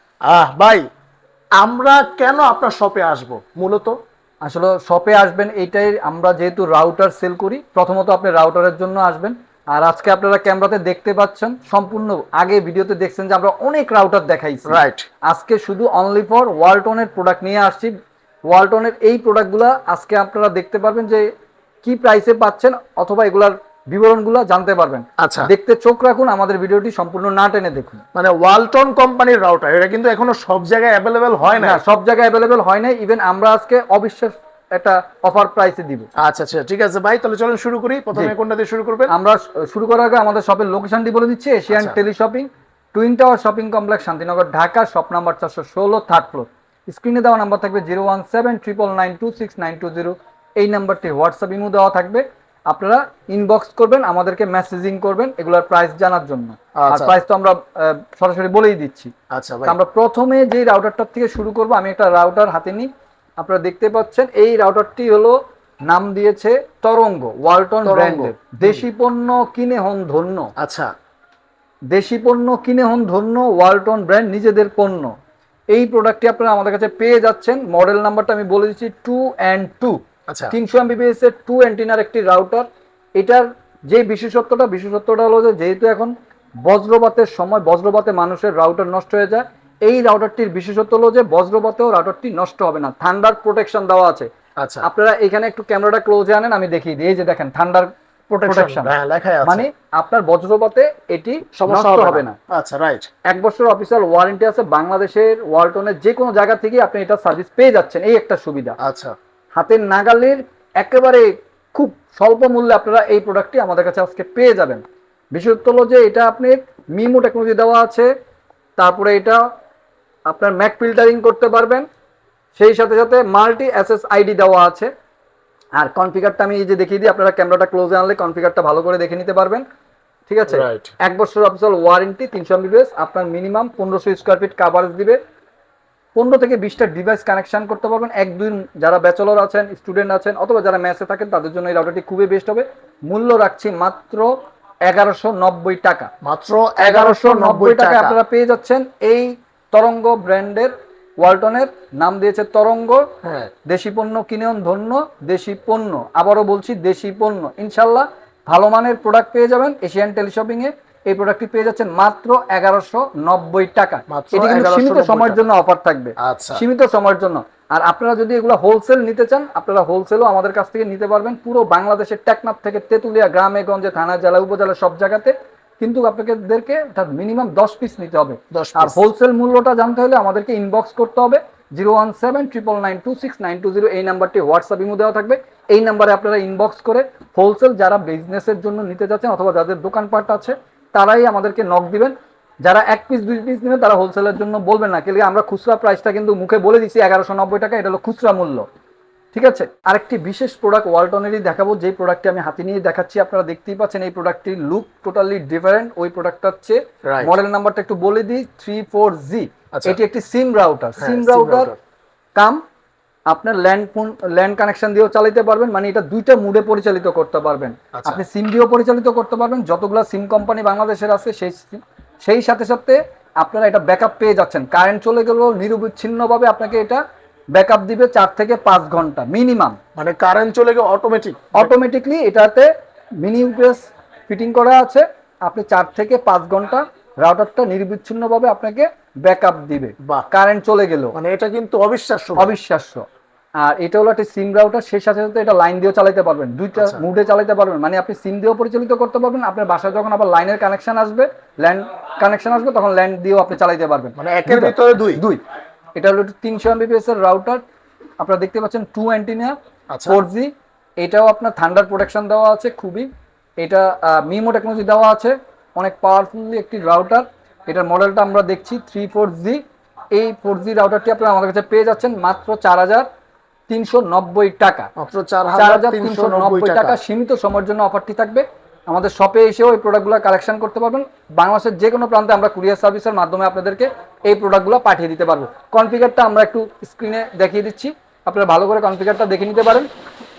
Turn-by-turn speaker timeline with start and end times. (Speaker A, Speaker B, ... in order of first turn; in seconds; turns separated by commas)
Speaker A: 0.3-0.8, Speaker A: 1.6-4.0, Speaker B: 4.4-17.9, Speaker A: 14.7-15.1, Speaker B: 18.5-21.3, Speaker B: 21.8-28.0, Speaker A: 25.2-25.5, Speaker A: 28.1-31.8, Speaker B: 31.6-36.1, Speaker A: 36.2-39.1, Speaker B: 39.1-59.1, Speaker A: 41.7-42.0, Speaker A: 56.8-57.2, Speaker A: 59.3-59.8, Speaker B: 59.7-62.9, Speaker B: 63.4-70.5, Speaker A: 67.8-68.9, Speaker A: 70.6-70.9, Speaker B: 71.9-75.1, Speaker B: 75.7-80.0, Speaker A: 80.3-80.5, Speaker B: 80.5-94.3, Speaker A: 94.6-94.9, Speaker B: 94.8-98.9, Speaker A: 98.5-99.7, Speaker B: 99.4-102.4, Speaker A: 101.5-103.1, Speaker B: 103.3-108.8, Speaker A: 108.8-109.2, Speaker B: 109.5-114.8, Speaker B: 115.3-118.1, Speaker B: 118.8-119.4, Speaker B: 120.3-121.9, Speaker B: 122.5-124.9, Speaker B: 125.8-129.7, Speaker B: 130.3-135.2, Speaker A: 130.5-130.9, Speaker B: 136.2-146.1, Speaker A: 146.2-148.2, Speaker B: 146.8-153.1, Speaker A: 153.2-153.5, Speaker B: 153.7-198.7, Speaker A: 164.1-165.4, Speaker A: 166.2-166.7, Speaker A: 178.5-179.0, Speaker B: 199.3-211.7, Speaker A: 207.1-207.4, Speaker A: 209.7-210.0, Speaker A: 211.0-211.8, Speaker B: 212.3-212.6, Speaker B: 213.3-227.0, Speaker A: 217.9-218.2, Speaker B: 227.5-229.8, Speaker A: 230.0-231.7, Speaker B: 231.6-241.2, Speaker A: 241.1-242.5, Speaker B: 242.4-243.0, Speaker B: 243.6-255.4, Speaker A: 246.8-247.0, Speaker A: 254.2-255.2, Speaker B: 255.9-257.6, Speaker B: 258.2-263.1, Speaker A: 259.9-260.2, Speaker B: 263.6-269.6, Speaker B: 270.1-273.1, Speaker B: 273.7-274.9, Speaker A: 275.0-277.0, Speaker B: 275.6-289.9